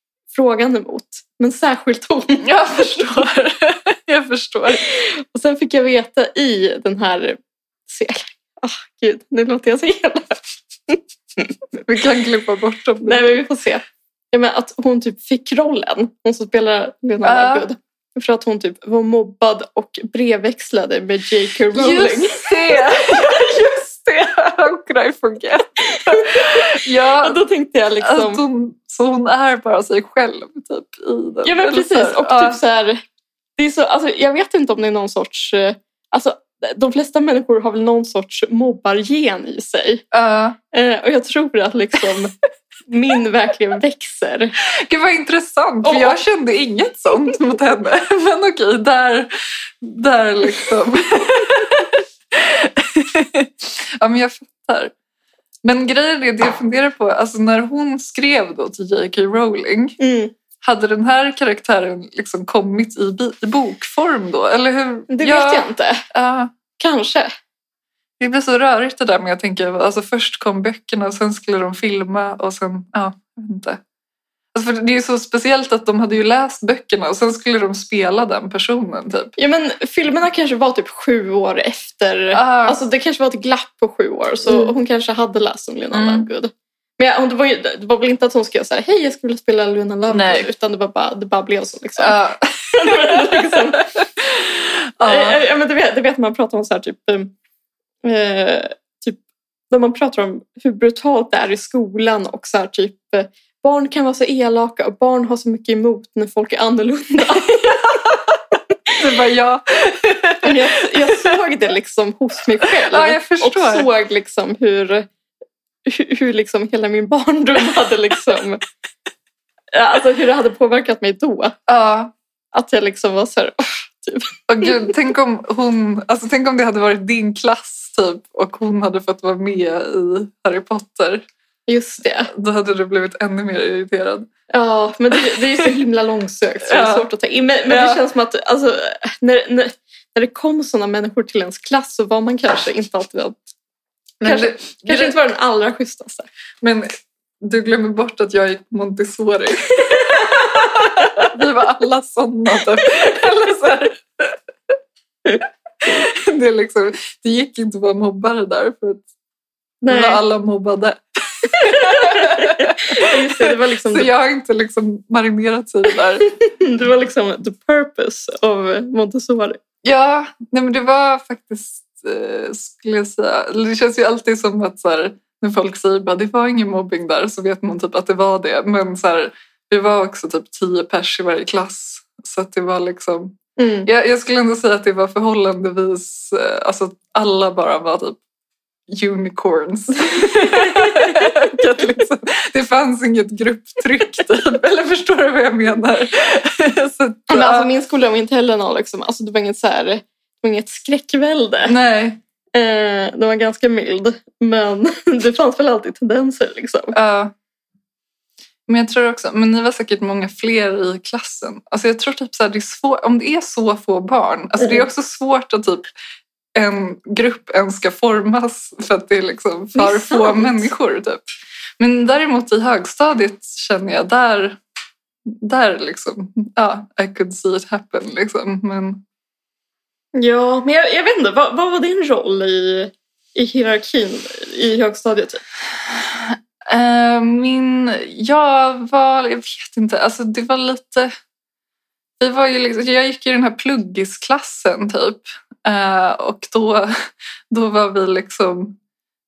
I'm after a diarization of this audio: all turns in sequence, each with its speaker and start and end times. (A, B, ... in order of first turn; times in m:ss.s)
0:00.3-0:02.5 A
0:02.4-0:04.8 B
0:04.7-0:11.5 A
0:11.8-0:13.4 B
0:13.0-0:22.8 A
0:17.2-0:17.6 B
0:21.7-0:27.4 B
0:25.9-0:28.4 A
0:28.0-0:32.6 B
0:31.4-0:33.0 A
0:33.6-0:40.0 A
0:40.1-0:40.6 B
0:40.7-0:42.3 A
0:42.9-0:44.6 A
0:44.8-0:49.3 B
0:45.8-0:46.2 A
0:49.8-0:54.9 B
0:55.6-1:00.0 B
1:00.0-1:00.3 A
1:00.6-1:06.5 B
1:05.1-1:06.0 A
1:06.8-1:07.3 A
1:08.2-1:13.8 B
1:14.5-1:19.3 B
1:19.4-1:32.2 A
1:22.3-1:22.8 B
1:25.9-1:26.2 B
1:30.1-1:30.5 B
1:32.0-1:35.4 B
1:32.7-1:33.9 A
1:35.0-1:37.3 A
1:38.0-1:48.0 A
1:47.5-1:47.9 B
1:49.0-1:51.3 B
1:50.4-1:55.0 A
1:52.7-1:53.9 B
1:55.8-1:58.6 A
1:59.7-2:01.6 A
2:01.7-2:02.1 B
2:02.5-2:04.8 A
2:04.5-2:11.2 B
2:11.7-2:12.3 A
2:12.3-2:14.3 B
2:14.5-2:23.5 A
2:16.6-2:17.1 B
2:17.6-2:18.0 B
2:24.2-2:25.2 B
2:24.2-2:26.3 A
2:26.6-2:26.9 B
2:27.4-2:34.4 B
2:29.9-2:30.6 A
2:35.8-2:39.0 B
2:39.8-2:40.2 A
2:39.9-2:46.3 B
2:41.5-2:44.1 A
2:46.3-2:49.6 A
2:49.8-3:08.2 B
3:03.6-3:03.9 A
3:08.9-3:17.7 B
3:17.3-3:21.7 A
3:21.6-3:22.2 B
3:22.5-3:26.9 A
3:26.9-3:27.3 B
3:28.7-3:35.9 B
3:36.5-3:41.2 B
3:39.7-3:40.7 A
3:41.8-3:44.6 B
3:45.3-3:49.0 B
3:50.1-3:55.4 A
3:56.1-4:01.1 B
4:02.2-4:08.8 B